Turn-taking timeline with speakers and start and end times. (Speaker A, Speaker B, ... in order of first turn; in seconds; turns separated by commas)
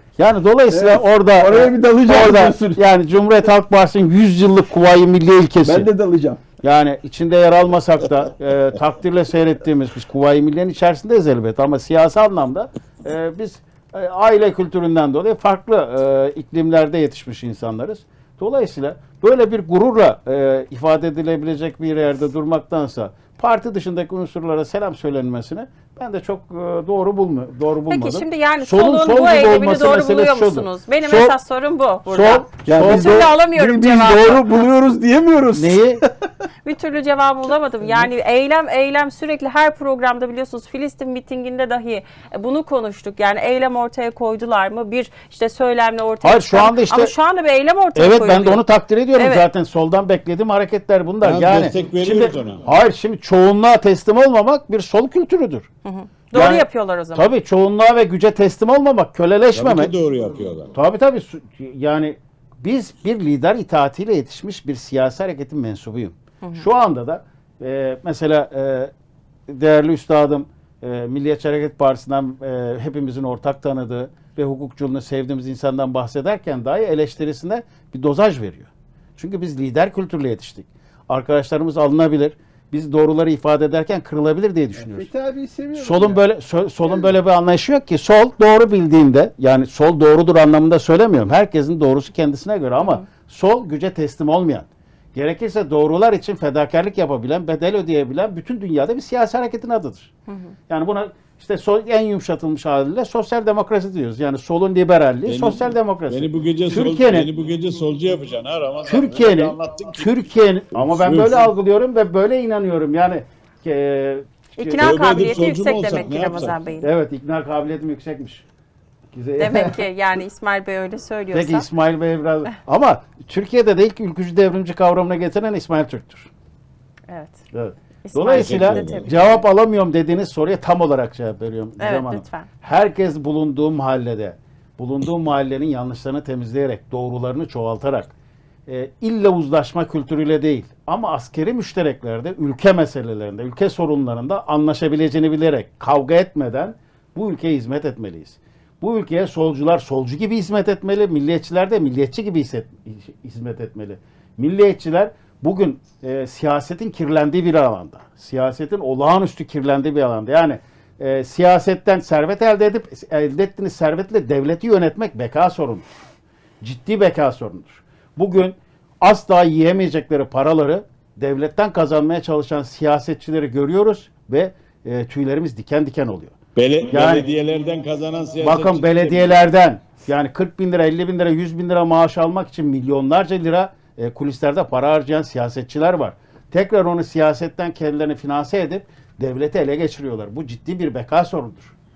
Speaker A: 0.2-5.9, Speaker B: 0.7-2.8, Speaker B: 5.6-6.4, Speaker A: 6.6-31.4, Speaker C: 27.9-34.5, Speaker A: 32.1-33.3, Speaker B: 32.6-36.1, Speaker A: 35.5-36.0, Speaker C: 36.6-48.6, Speaker A: 46.2-47.1, Speaker A: 48.0-55.7, Speaker C: 49.1-49.5, Speaker D: 51.2-52.6, Speaker C: 55.9-57.3, Speaker A: 56.3-59.9, Speaker D: 59.5-60.7, Speaker A: 60.7-68.9, Speaker A: 69.5-85.1, Speaker B: 84.8-86.2, Speaker A: 85.8-100.1, Speaker C: 100.3-100.5, Speaker A: 100.7-107.3, Speaker D: 105.2-110.2, Speaker A: 108.8-115.0, Speaker D: 110.7-111.5, Speaker C: 114.6-116.9, Speaker D: 114.8-116.6, Speaker A: 116.8-118.4, Speaker A: 119.1-119.8, Speaker C: 119.4-121.7, Speaker A: 121.3-126.3, Speaker C: 127.1-127.4, Speaker A: 127.5-138.1, Speaker C: 128.1-129.1, Speaker D: 128.3-129.1, Speaker C: 131.8-132.5, Speaker A: 138.7-165.9, Speaker A: 166.6-176.3, Speaker D: 176.6-179.4, Speaker A: 176.9-177.3, Speaker A: 178.4-191.8